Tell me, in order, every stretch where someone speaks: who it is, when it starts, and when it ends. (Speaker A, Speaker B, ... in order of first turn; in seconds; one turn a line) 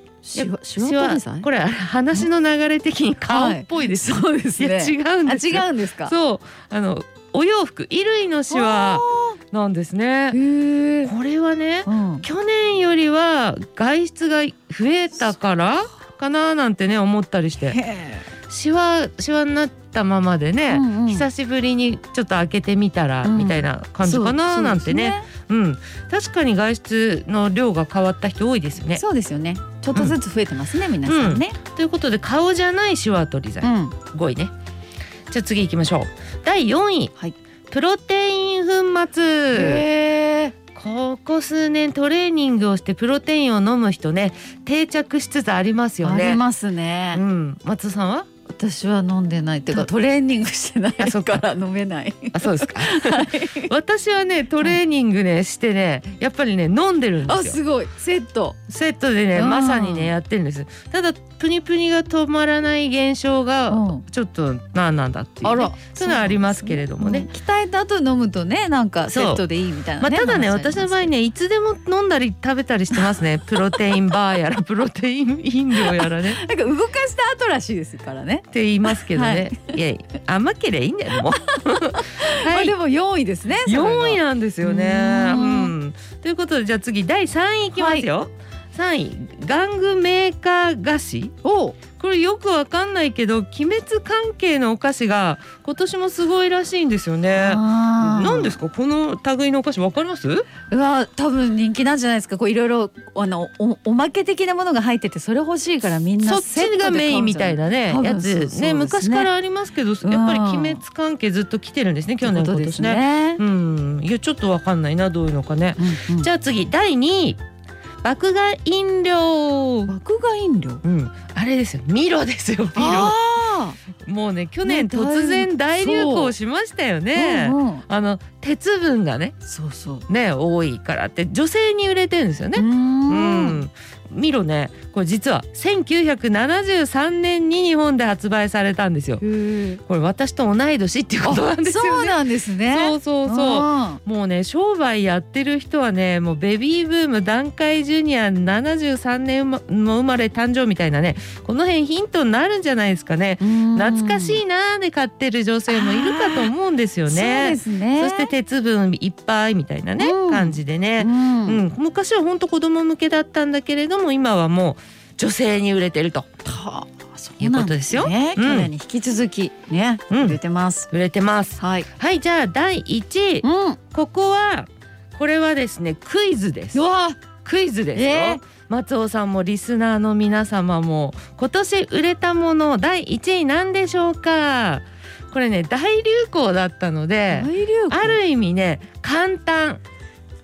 Speaker A: 0.2-1.5
Speaker B: 0.3-10.4
Speaker A: 3.2-6.1
Speaker A: 8.5-9.4
Speaker A: 10.3-11.1
Speaker B: 11.0-17.8
Speaker A: 11.8-12.2
Speaker A: 17.6-18.2
Speaker B: 18.5-29.0
Speaker A: 20.7-21.3
Speaker A: 23.2-25.3
Speaker A: 28.9-31.6
Speaker B: 31.0-34.5
Speaker A: 33.6-34.0
Speaker B: 35.3-37.1
Speaker B: 37.7-39.9
Speaker A: 39.5-40.5
Speaker B: 40.7-46.4
Speaker A: 46.0-47.2
Speaker B: 47.1-48.2
Speaker A: 48.5-53.7
Speaker B: 51.0-51.5
Speaker B: 52.3-57.6
Speaker A: 57.2-58.6
Speaker B: 58.7-67.3
Speaker A: 59.3-60.1
Speaker A: 63.7-64.0
Speaker A: 65.4-71.1
Speaker B: 69.1-69.4
Speaker B: 70.0-76.4
Speaker A: 72.9-73.2
Speaker A: 75.8-79.7
Speaker B: 78.5-82.7
Speaker A: 81.2-85.7
Speaker B: 83.6-91.3
Speaker A: 87.7-88.1
Speaker A: 91.4-91.8
Speaker B: 92.0-100.5
Speaker A: 97.3-98.5
Speaker A: 100.7-109.3
Speaker B: 106.2-117.4
Speaker A: 110.0-110.8
Speaker A: 112.2-113.4
Speaker A: 115.8-116.3
Speaker B: 118.0-119.9
Speaker A: 119.9-120.8
Speaker B: 120.8-123.2
Speaker A: 122.7-123.8
Speaker B: 124.0-129.3
Speaker A: 124.6-126.3
Speaker A: 127.1-127.8
Speaker A: 129.4-130.1
Speaker B: 130.1-139.2
Speaker A: 132.5-133.6
Speaker A: 139.2-139.8
Speaker B: 139.8-166.3
Speaker A: 141.2-144.0
Speaker A: 153.4-154.4
Speaker A: 155.7-156.5
Speaker A: 157.1-158.3
Speaker A: 160.0-161.6
Speaker A: 166.4-170.9
Speaker B: 167.4-168.7
Speaker B: 170.1-170.4
Speaker B: 170.9-176.8
Speaker A: 171.6-171.9
Speaker A: 173.4-173.8
Speaker A: 176.7-177.2
Speaker B: 177.4-189.8
Speaker A: 177.9-178.4
Speaker A: 187.3-188.2